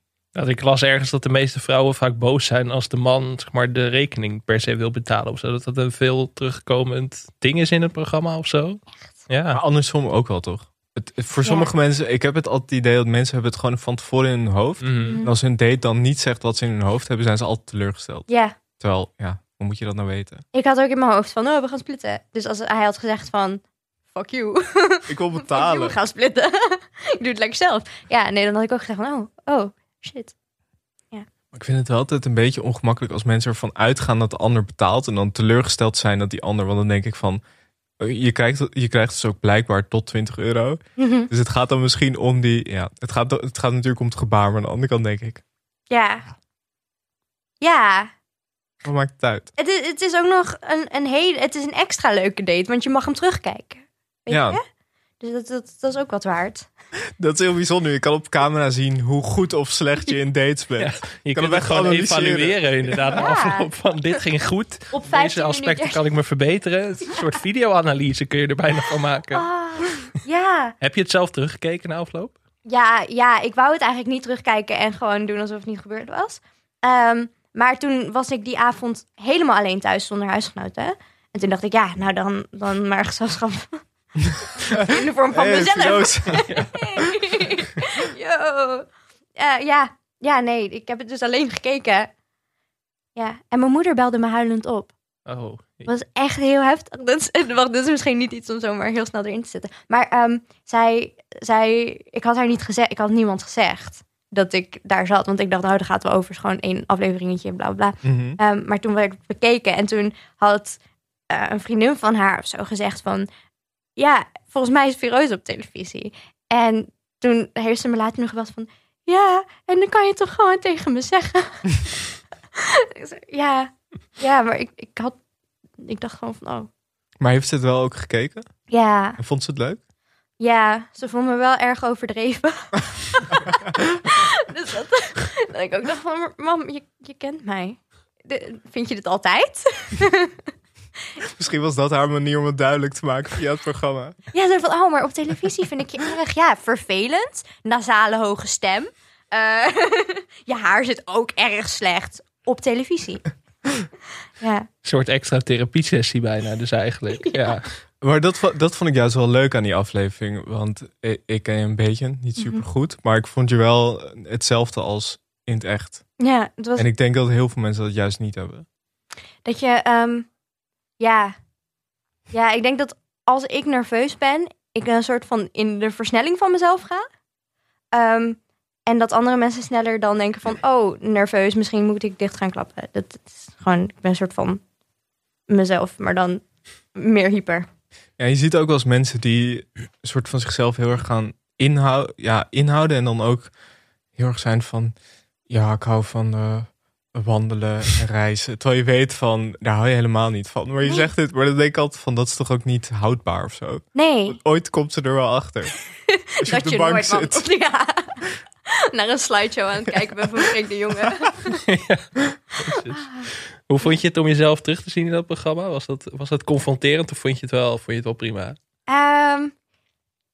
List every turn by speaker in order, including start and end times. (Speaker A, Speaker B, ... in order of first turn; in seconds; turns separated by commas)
Speaker A: 0.3-9.6, Speaker B: 9.5-18.3, Speaker C: 11.4-11.7, Speaker A: 14.8-15.2, Speaker C: 15.1-15.3, Speaker C: 18.3-18.6, Speaker B: 18.8-20.4, Speaker C: 20.5-30.3, Speaker B: 25.1-26.0, Speaker B: 31.5-37.4, Speaker B: 38.0-45.4, Speaker C: 41.0-41.3, Speaker C: 45.9-46.3, Speaker C: 47.6-48.1, Speaker B: 48.8-49.5, Speaker C: 49.6-54.6, Speaker B: 54.3-54.6, Speaker C: 55.2-56.7, Speaker B: 57.2-63.1, Speaker A: 60.8-69.5, Speaker C: 63.1-63.7, Speaker C: 64.9-66.0, Speaker C: 69.3-70.8, Speaker A: 70.8-72.4, Speaker C: 72.7-83.8, Speaker B: 84.2-87.1, Speaker C: 84.6-92.1, Speaker C: 93.2-94.9, Speaker A: 95.3-95.9, Speaker C: 95.9-110.8, Speaker B: 108.0-108.4, Speaker C: 111.3-113.3, Speaker C: 114.0-122.0, Speaker C: 122.5-125.2, Speaker C: 125.8-126.7, Speaker B: 127.2-128.5, Speaker C: 128.7-129.2, Speaker B: 129.2-129.8, Speaker C: 130.4-140.4, Speaker B: 141.2-144.2, Speaker C: 144.3-153.3, Speaker C: 154.4-154.7, Speaker A: 154.8-157.7, Speaker C: 157.2-157.6, Speaker B: 158.0-166.0, Speaker C: 162.4-162.6, Speaker C: 166.2-166.8, Speaker B: 166.8-168.7, Speaker C: 169.4-170.3, Speaker C: 171.0-171.3, Speaker C: 172.3-177.1, Speaker C: 177.9-184.6, Speaker C: 185.5-186.4, Speaker C: 186.9-187.7, Speaker B: 188.2-193.5, Speaker B: 194.2-194.9, Speaker B: 195.5-205.7, Speaker C: 203.9-204.4, Speaker C: 206.1-211.6, Speaker B: 206.4-207.4, Speaker A: 211.7-213.1, Speaker C: 212.7-213.3, Speaker A: 213.7-218.6, Speaker C: 218.9-219.5